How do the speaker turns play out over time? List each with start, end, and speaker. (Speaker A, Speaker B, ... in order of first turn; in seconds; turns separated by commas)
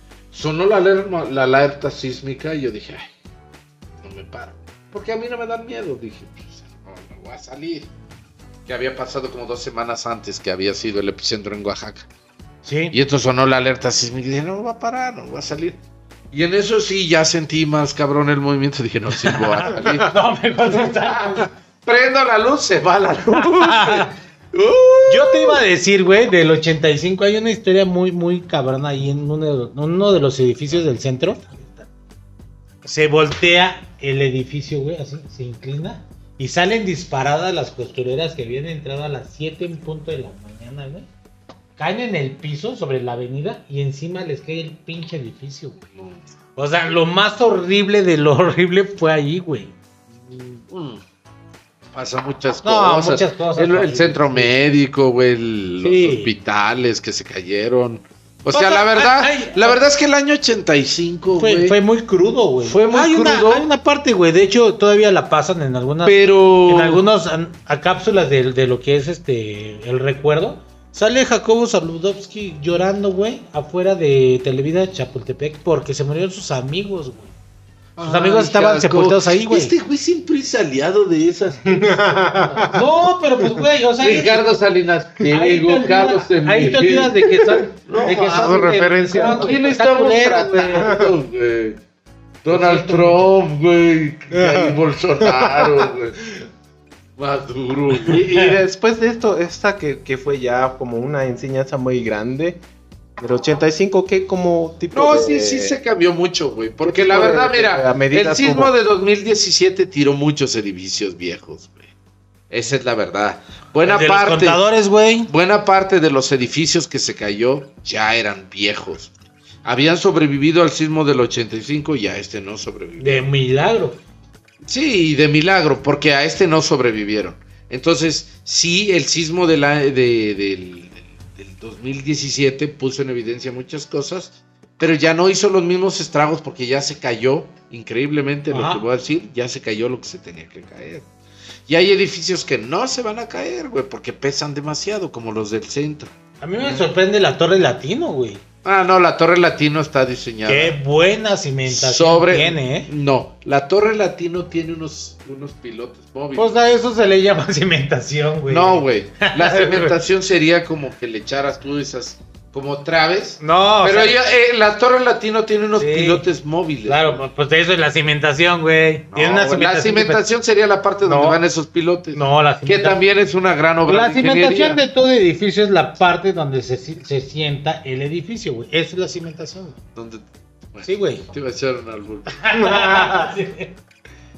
Speaker A: 0.3-3.1, Speaker A: 4.0-7.9, Speaker A: 8.7-12.1, Speaker B: 12.6-12.9, Speaker A: 12.9-15.8, Speaker A: 16.3-20.1, Speaker B: 19.1-21.5, Speaker A: 20.7-25.6, Speaker B: 23.3-24.1, Speaker B: 25.1-31.9, Speaker B: 32.8-41.1, Speaker B: 41.8-45.8, Speaker A: 45.9-46.2, Speaker B: 46.5-49.7, Speaker A: 50.7-51.0, Speaker A: 51.9-61.8, Speaker B: 52.6-54.5, Speaker B: 55.8-56.3, Speaker B: 58.5-59.8, Speaker B: 61.4-77.3, Speaker A: 62.6-63.7, Speaker A: 66.0-67.0, Speaker A: 78.0-82.7, Speaker B: 78.0-79.7, Speaker C: 81.6-82.8, Speaker B: 82.7-84.4, Speaker A: 84.0-91.8, Speaker B: 85.3-91.0, Speaker C: 88.0-89.6, Speaker C: 90.8-91.1, Speaker A: 92.4-96.4, Speaker B: 92.5-93.3, Speaker C: 94.3-95.9, Speaker A: 97.2-98.2, Speaker C: 98.0-102.6, Speaker B: 98.1-98.5, Speaker C: 103.2-105.8, Speaker A: 104.9-111.9, Speaker C: 106.8-108.7, Speaker A: 112.5-114.6, Speaker B: 113.8-115.3, Speaker A: 115.3-119.1, Speaker A: 119.6-123.2, Speaker B: 123.0-124.0, Speaker A: 124.6-141.1, Speaker B: 138.5-138.8, Speaker A: 141.7-146.1, Speaker B: 146.4-148.4, Speaker A: 148.6-150.8, Speaker B: 150.4-152.9, Speaker A: 151.7-156.5, Speaker B: 156.3-160.0, Speaker A: 158.5-167.2, Speaker B: 163.4-164.2, Speaker B: 165.8-166.2, Speaker B: 166.8-170.2, Speaker A: 169.1-174.8, Speaker B: 171.0-171.4, Speaker B: 172.1-173.0, Speaker B: 173.8-179.8, Speaker A: 179.9-180.2, Speaker A: 180.7-182.9, Speaker B: 180.8-181.2, Speaker B: 182.3-183.8